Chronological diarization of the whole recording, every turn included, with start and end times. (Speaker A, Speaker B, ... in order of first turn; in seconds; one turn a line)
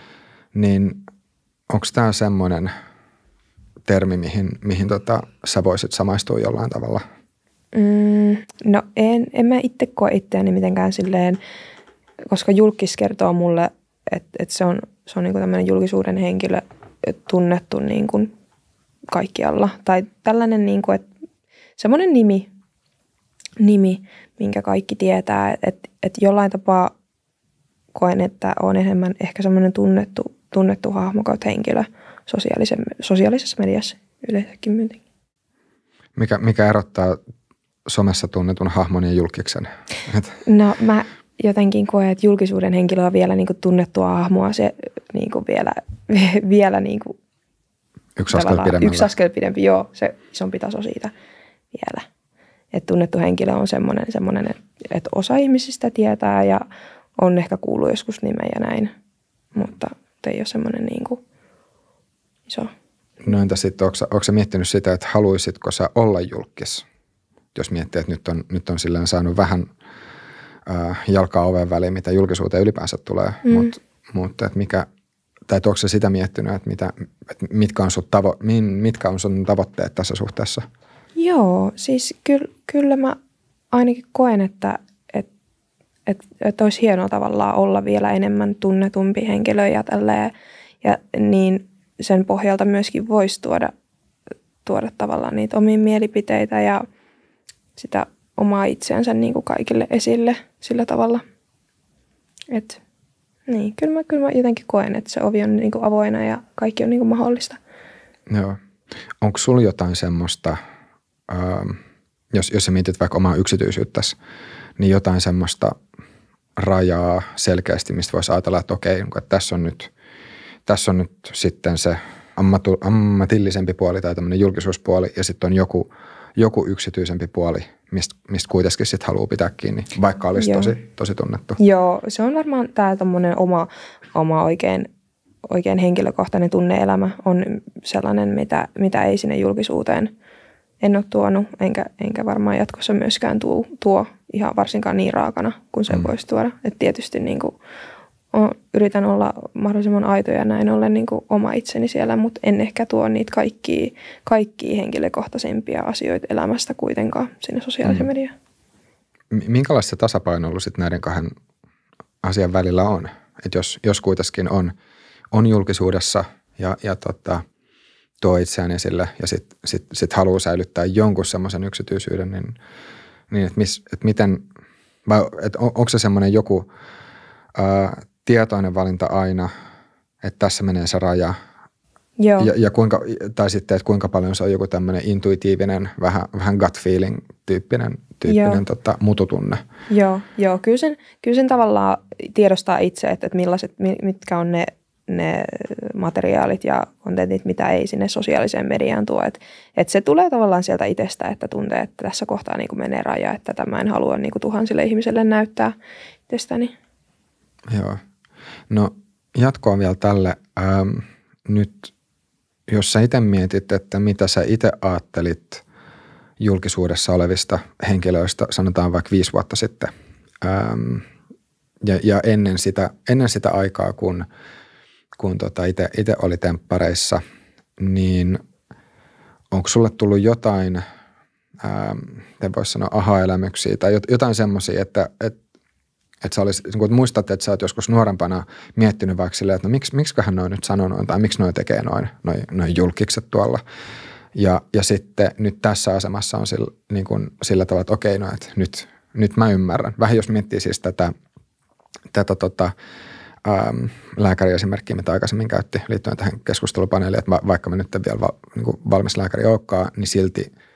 Speaker A: 0.5-1.0
Speaker A: 1.7-2.7
Speaker A: 3.9-7.0
Speaker B: 7.7-11.4
Speaker B: 12.3-18.3
Speaker B: 19.1-21.1
Speaker B: 21.8-22.5
Speaker B: 23.6-26.9
Speaker B: 27.9-35.0
Speaker A: 36.2-37.2
Speaker A: 37.9-40.4
Speaker B: 40.5-47.2
Speaker A: 48.2-49.1
Speaker B: 48.3-51.1
Speaker B: 51.7-52.1
Speaker B: 52.7-56.6
Speaker B: 57.2-58.9
Speaker B: 59.5-61.2
Speaker A: 63.2-66.9
Speaker A: 67.5-69.7
Speaker A: 70.7-74.9
Speaker B: 73.5-73.7
Speaker A: 75.5-80.7
Speaker B: 81.2-83.2
Speaker B: 83.7-85.3
Speaker B: 86.1-90.3
Speaker B: 90.8-93.7
Speaker B: 94.7-96.9
Speaker B: 97.8-101.2
Speaker B: 102.5-102.8
Speaker B: 103.5-107.6
Speaker A: 108.3-108.6
Speaker A: 109.2-110.6
Speaker A: 111.3-111.8
Speaker A: 112.3-114.2
Speaker A: 114.8-115.8
Speaker A: 116.6-119.9
Speaker A: 120.7-131.6
Speaker B: 130.4-130.8
Speaker B: 131.6-134.9
Speaker B: 135.5-140.1
Speaker B: 140.8-147.6
Speaker B: 148.3-158.3
Speaker A: 159.3-161.3
Speaker A: 162.2-164.7
Speaker A: 165.3-167.4
Speaker A: 168.2-172.6
Speaker A: 173.3-174.5
Speaker A: 175.1-176.7
Speaker A: 177.6-179.5
Speaker A: 180.2-181.3
Speaker B: 182.2-182.5
Speaker A: 182.4-189.6
Speaker B: 188.3-188.6
Speaker B: 189.9-205.8
Speaker B: 206.3-206.7
Speaker A: 207.7-208.0
Speaker A: 208.7-211.9
Speaker A: 212.7-215.6
Speaker A: 216.4-219.9
Speaker A: 220.4-221.1
Speaker A: 221.8-224.3
Speaker A: 225.2-227.2
Speaker A: 227.8-228.4
Speaker A: 229.5-230.8
Speaker A: 231.6-235.4
Speaker A: 236.2-243.6
Speaker A: 244.3-251.1
Speaker A: 252.1-252.7
Speaker A: 253.4-260.5